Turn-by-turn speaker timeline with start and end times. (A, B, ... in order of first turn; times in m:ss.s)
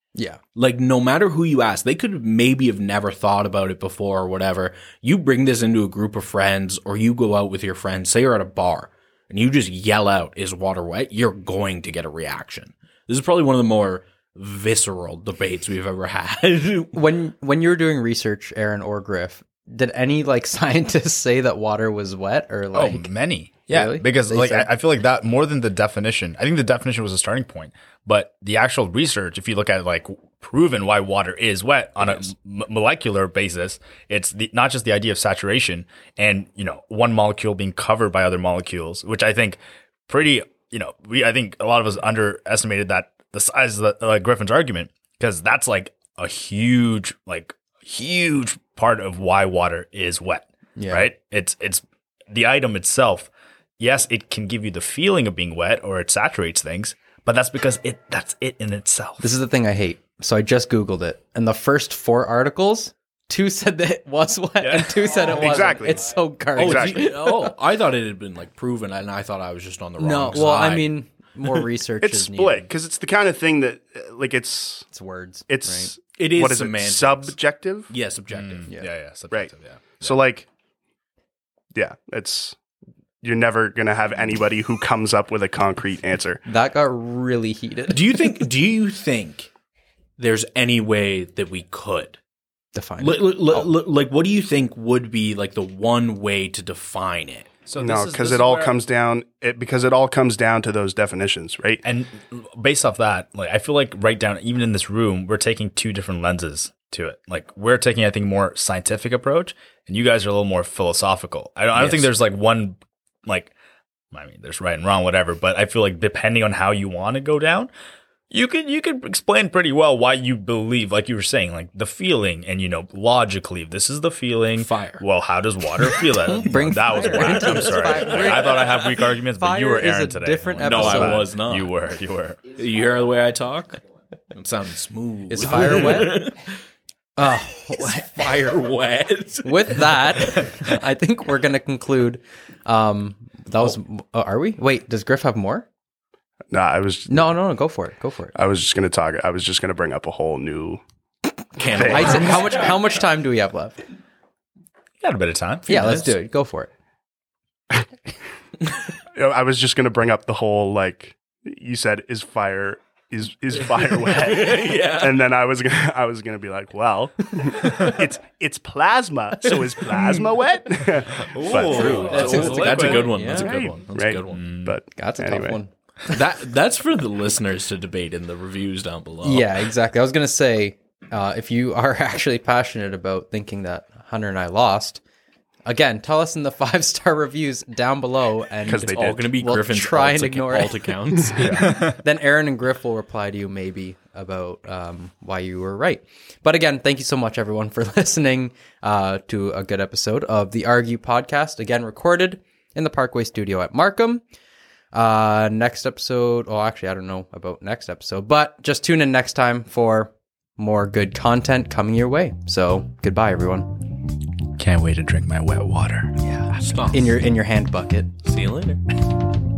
0:00.6-0:17.0 A
0:16.9-0:23.1 B
0:22.7-0:59.3 C
0:23.7-0:24.7 B
0:50.8-0:51.1 B
0:59.2-1:07.5 B
1:04.6-1:05.0 C
1:05.3-1:07.1 D
1:06.6-1:11.0 A
1:10.0-1:12.7 B
1:12.0-1:14.9 D
1:14.9-1:15.9 B
1:15.5-1:17.9 D
1:16.2-1:17.4 A
1:17.9-1:18.7 A
1:18.3-1:20.2 C
1:19.3-1:20.5 D
1:21.7-1:22.6 D
1:23.2-1:26.4 D
1:26.5-1:28.3 B
1:27.9-1:29.5 A
1:30.2-1:32.2 A
1:32.8-1:33.7 B
1:33.0-1:37.5 A
1:37.7-1:38.8 C
1:37.8-1:41.8 D
1:41.8-1:53.5 C
1:54.1-1:57.7 C
1:58.3-2:12.4 C
2:04.6-2:05.1 A
2:06.2-2:11.3 B
2:07.2-2:08.4 A
2:10.6-2:11.7 A
2:12.5-2:16.5 A
2:15.3-2:16.3 B
2:17.2-2:18.5 B
2:17.7-2:20.8 A
2:19.4-2:25.7 B
2:26.5-2:27.3 D
2:27.1-2:28.4 B
2:28.3-2:30.8 D
2:31.6-2:32.7 A
2:31.7-2:32.3 D
2:31.8-2:33.8 B
2:35.0-2:36.0 C
2:35.7-2:36.1 A
2:35.7-2:36.7 B
2:39.1-2:52.5 D
2:44.0-2:45.2 A
2:51.2-2:53.1 C
2:51.5-2:54.4 A
2:51.7-2:53.5 B
2:53.1-2:55.6 D
2:54.3-2:54.8 C
2:55.0-2:56.2 B
2:56.1-2:59.6 A
2:59.2-3:05.0 B
3:05.7-3:24.2 B
3:08.7-3:09.3 D
3:08.7-3:11.6 A
3:11.4-3:12.0 C
3:24.9-3:33.7 B
3:34.6-3:36.5 C
3:36.5-3:37.2 A
3:36.9-3:38.1 B
3:38.2-3:38.8 A